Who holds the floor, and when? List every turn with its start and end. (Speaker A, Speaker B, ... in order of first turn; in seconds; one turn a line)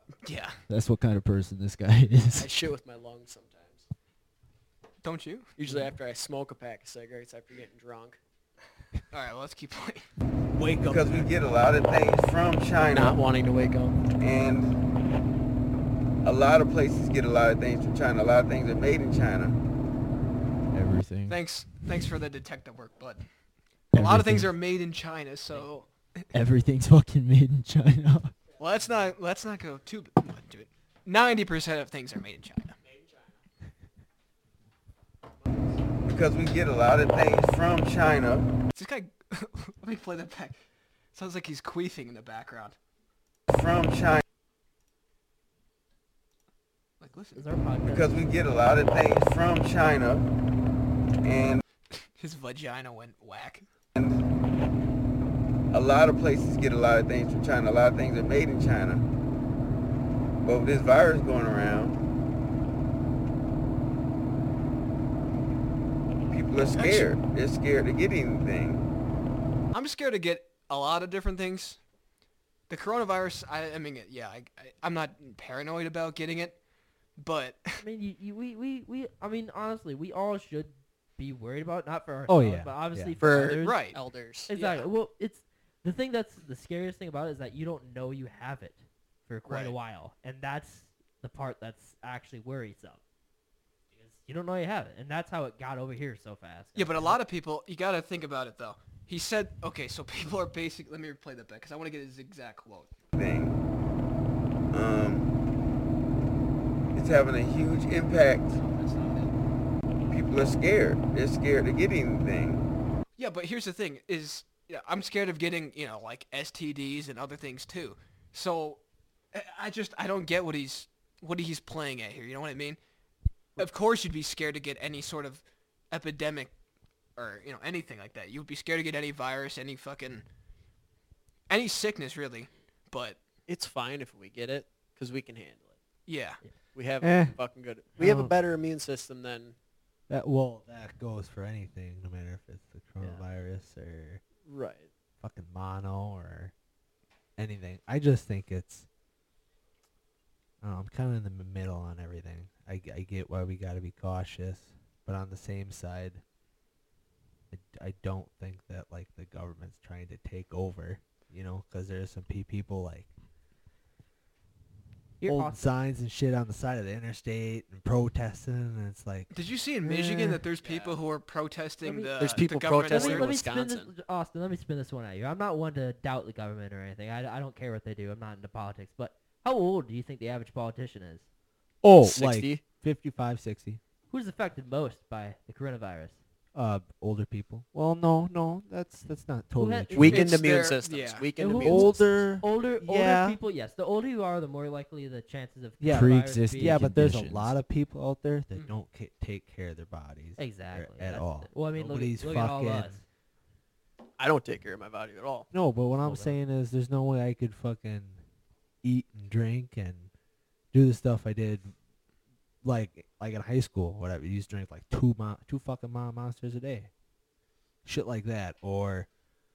Speaker A: 0.2-0.6
Speaker B: 0.7-2.5
Speaker C: 2.4-3.9
Speaker A: 5.0-5.5
Speaker C: 5.6-8.2
Speaker A: 9.1-10.1
Speaker D: 10.5-11.3
Speaker E: 10.8-13.2
Speaker C: 12.9-14.0
Speaker E: 14.2-14.7
Speaker E: 16.2-19.6
Speaker B: 20.7-21.4
Speaker A: 21.3-23.2
Speaker B: 23.9-24.5
Speaker A: 23.9-26.2
Speaker B: 26.3-28.4
Speaker A: 28.6-32.8
Speaker E: 36.1-38.5
Speaker A: 38.7-40.6
Speaker A: 41.1-42.8
Speaker E: 43.5-44.2
Speaker A: 47.0-47.4
Speaker F: 47.4-48.3
Speaker E: 47.9-50.3
Speaker E: 51.2-51.6
Speaker A: 52.0-53.6
Speaker E: 55.7-59.0
Speaker E: 60.4-62.0
Speaker E: 66.3-68.8
Speaker A: 66.8-67.1
Speaker A: 69.7-71.8
Speaker A: 72.7-76.6
Speaker A: 77.2-77.8
Speaker F: 77.8-83.9
Speaker D: 82.3-83.2
Speaker C: 83.2-84.5
Speaker A: 83.6-84.0
Speaker F: 84.5-93.0
Speaker A: 84.5-84.9
Speaker A: 89.5-89.7
Speaker F: 94.0-97.2
Speaker A: 96.8-102.9
Speaker E: 103.2-103.5
Speaker E: 104.7-105.3
Speaker E: 107.0-108.6
Speaker A: 108.9-109.3
Speaker E: 110.1-112.6
Speaker A: 113.2-118.8
Speaker A: 119.3-122.8
Speaker A: 123.6-126.5
Speaker A: 127.2-130.2
Speaker A: 131.5-133.2
Speaker C: 133.5-135.8
Speaker A: 136.1-136.4
Speaker C: 136.7-139.6
Speaker D: 137.0-137.4
Speaker D: 138.0-138.3
Speaker D: 140.1-144.2
Speaker C: 144.4-144.9
Speaker D: 145.2-146.5
Speaker D: 147.4-148.9
Speaker D: 150.6-156.2
Speaker D: 157.5-163.1
Speaker F: 165.2-165.7
Speaker D: 165.2-170.4
Speaker A: 169.3-173.3
Speaker C: 170.6-171.0
Speaker F: 171.8-172.1
Speaker C: 172.2-173.9
Speaker F: 172.9-181.3
Speaker D: 181.8-183.8
Speaker C: 182.0-182.6
Speaker F: 184.1-186.2
Speaker D: 186.5-190.4
Speaker F: 189.6-190.2
Speaker C: 189.9-191.9
Speaker A: 190.1-191.3
Speaker F: 191.4-196.8
Speaker D: 191.6-193.4
Speaker D: 195.8-203.0
Speaker B: 195.9-197.5
Speaker F: 200.4-203.0
Speaker C: 204.2-205.5
Speaker D: 205.5-208.2
Speaker F: 206.0-206.4
Speaker D: 208.8-210.1
Speaker D: 210.7-211.7
Speaker D: 212.6-216.9
Speaker D: 217.8-219.1